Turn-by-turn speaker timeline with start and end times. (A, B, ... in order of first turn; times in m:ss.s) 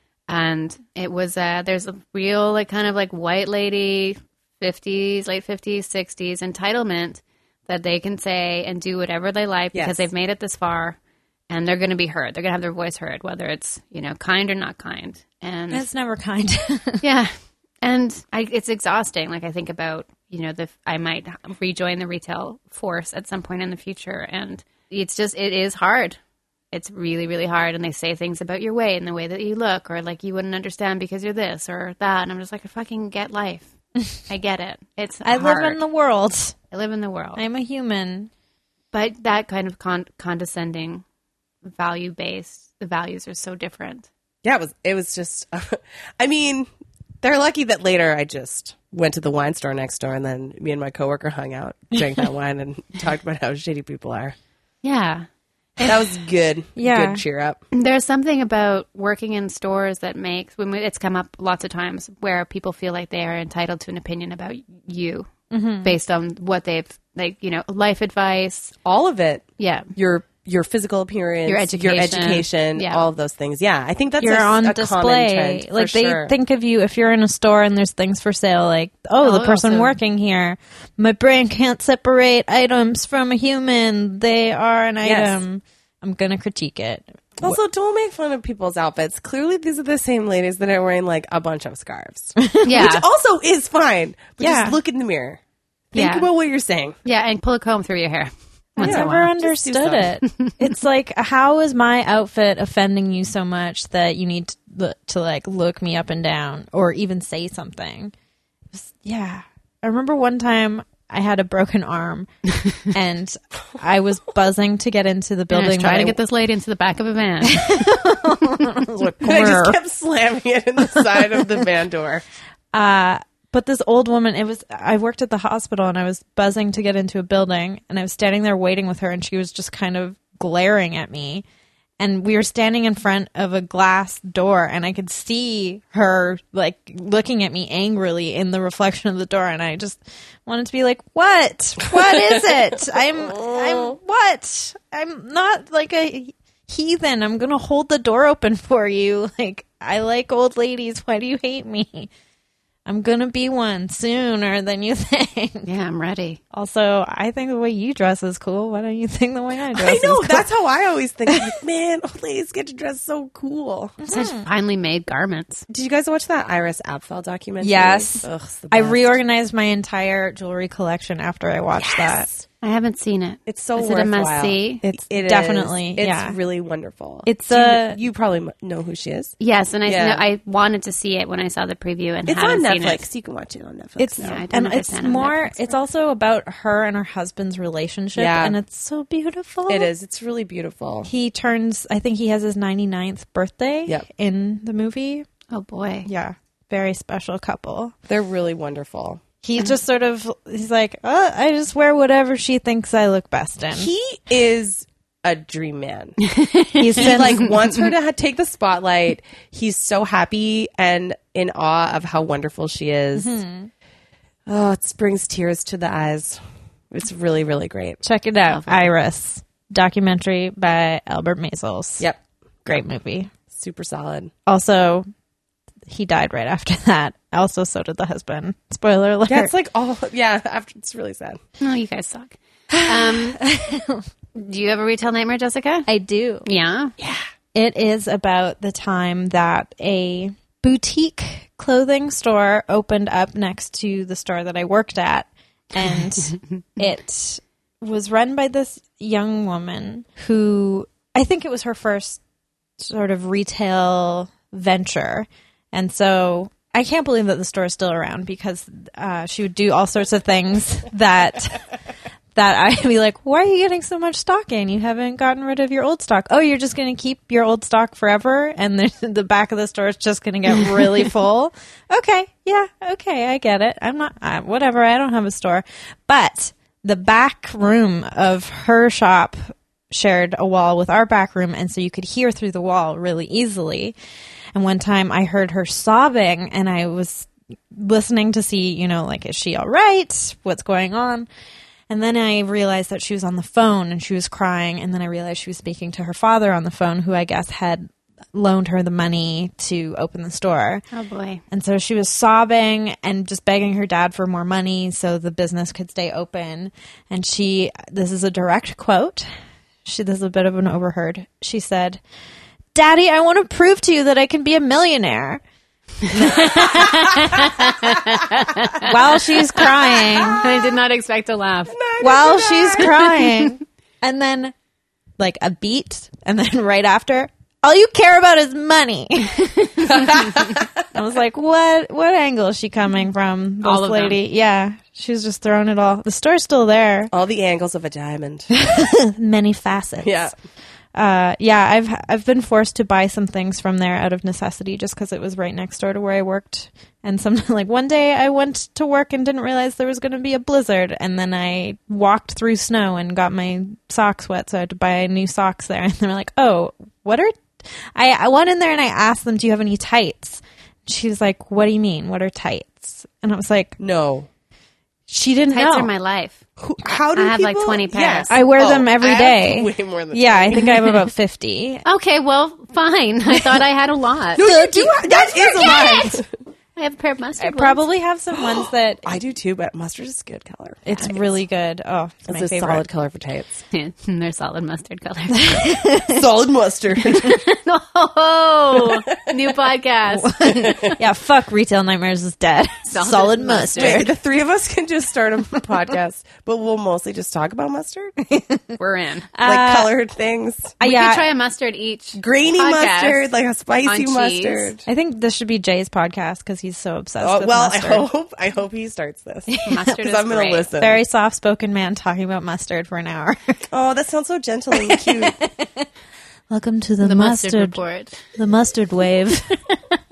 0:00.3-0:11.0 A
0:09.7-0:10.1 B
0:11.5-0:15.9 A
0:15.7-0:17.0 C
0:17.0-0:26.2 A
0:26.7-0:33.7 A
0:34.3-0:35.8 A
0:35.2-0:36.5 C
0:36.7-0:37.4 A
0:37.4-0:38.3 C
0:38.9-0:41.0 A
0:41.6-0:44.1 A
0:44.4-0:46.7 B
0:47.2-0:54.4 B
0:54.8-0:55.2 A
0:55.8-0:56.1 A
0:55.8-0:57.6 B
0:56.8-0:57.2 C
0:57.7-1:05.3 A
1:05.5-1:05.9 C
1:05.8-1:08.7 A
1:08.8-1:16.3 B
1:09.6-1:09.9 A
1:11.4-1:13.0 A
1:14.2-1:27.6 C
1:19.2-1:20.0 A
1:25.0-1:25.4 B
1:27.4-1:35.4 B
1:32.4-1:32.7 C
1:32.6-1:33.0 A
1:34.4-1:34.8 C
1:35.9-1:36.9 B
1:35.9-1:36.3 A
1:37.0-1:39.3 A
1:38.8-1:48.1 C
1:38.8-1:40.1 B
1:40.2-1:40.5 A
1:48.7-1:52.3 C
1:52.8-1:56.2 C
1:55.5-1:57.8 A
1:57.5-1:59.8 C
1:59.2-2:02.2 B
2:02.7-2:11.4 C
2:12.0-2:32.1 C
2:22.1-2:22.4 B
2:23.2-2:23.9 B
2:32.8-2:35.7 C
2:35.6-2:36.4 A
2:36.5-2:40.5 C
2:39.7-2:44.0 B
2:44.0-2:44.4 C
2:44.1-2:45.6 A
2:45.7-2:49.2 B
2:47.6-2:52.3 C
2:51.8-2:52.4 B
2:52.6-2:54.8 A
2:53.4-3:00.2 B
2:55.1-2:56.4 C
2:57.2-2:58.0 C
2:59.4-3:03.0 A
3:02.2-3:04.4 B
3:04.0-3:09.9 C
3:04.2-3:05.7 A
3:08.1-3:08.6 B
3:09.7-3:11.1 B
3:11.0-3:15.2 C
3:15.5-3:16.1 A
3:16.0-3:17.9 C
3:18.1-3:19.2 B
3:19.4-3:23.9 C
3:23.7-3:26.2 B
3:26.2-3:27.8 A
3:26.8-3:27.5 C
3:26.9-3:33.4 B
3:33.2-3:33.7 C
3:34.5-3:38.0 B
3:38.0-3:42.1 C
3:38.5-3:38.9 A
3:42.0-3:42.8 B
3:42.6-3:43.3 C
3:43.5-3:44.3 B
3:44.5-3:45.0 C
3:45.9-3:49.5 C
3:49.3-3:51.4 B
3:51.6-3:53.4 A
3:52.7-3:54.0 C
3:54.3-3:55.9 A
3:55.9-3:56.5 C
3:56.4-3:56.9 A
3:57.0-3:57.2 B
3:57.5-4:12.2 C
4:12.8-4:21.6 C
4:22.3-4:43.9 C
4:44.5-4:51.3 C
4:51.9-5:00.8 C
5:00.9-5:01.4 A
5:01.5-5:09.3 C
5:09.8-5:12.0 C
5:12.7-5:15.4 C
5:16.1-5:21.8 A
5:16.1-5:17.7 C
5:18.8-5:20.4 C
5:20.1-5:20.6 B
5:21.7-5:23.1 B
5:22.0-5:24.5 C
5:25.2-5:30.3 C
5:29.8-5:30.6 B
5:30.9-5:37.1 C
5:33.6-5:34.2 A
5:37.1-5:38.5 B
5:38.5-5:40.3 C
5:40.0-5:40.3 B
5:40.9-6:03.8 C
6:03.8-6:04.3 B
6:05.1-6:05.9 C
6:05.5-6:06.4 A
6:06.6-6:10.9 B
6:07.1-6:08.3 A
6:08.3-6:11.8 C
6:11.8-6:14.4 A
6:14.3-6:16.3 B
6:14.4-6:16.2 C
6:16.8-6:17.8 A
6:17.4-6:19.1 C
6:18.4-6:21.2 B
6:20.8-6:22.8 C
6:22.3-6:23.6 B
6:23.7-6:25.8 A
6:25.3-6:26.2 C
6:26.1-6:27.4 B
6:27.1-6:30.9 A
6:28.8-6:29.3 B
6:30.1-6:34.1 C
6:32.9-6:34.1 A
6:33.8-6:38.1 B
6:38.3-6:38.8 C
6:38.8-6:39.3 A
6:39.3-6:39.9 C
6:39.4-6:40.7 B
6:40.8-6:41.2 C
6:40.8-6:43.3 A
6:42.1-6:44.8 B
6:43.8-6:44.7 A
6:44.8-6:48.1 C
6:47.2-6:51.0 B
6:49.5-6:49.9 C
6:49.6-6:50.7 A
6:50.8-6:53.6 C
6:53.7-6:55.4 B
6:54.7-6:55.9 C
6:56.5-6:57.8 C
6:57.0-6:58.2 A
6:58.3-6:59.6 C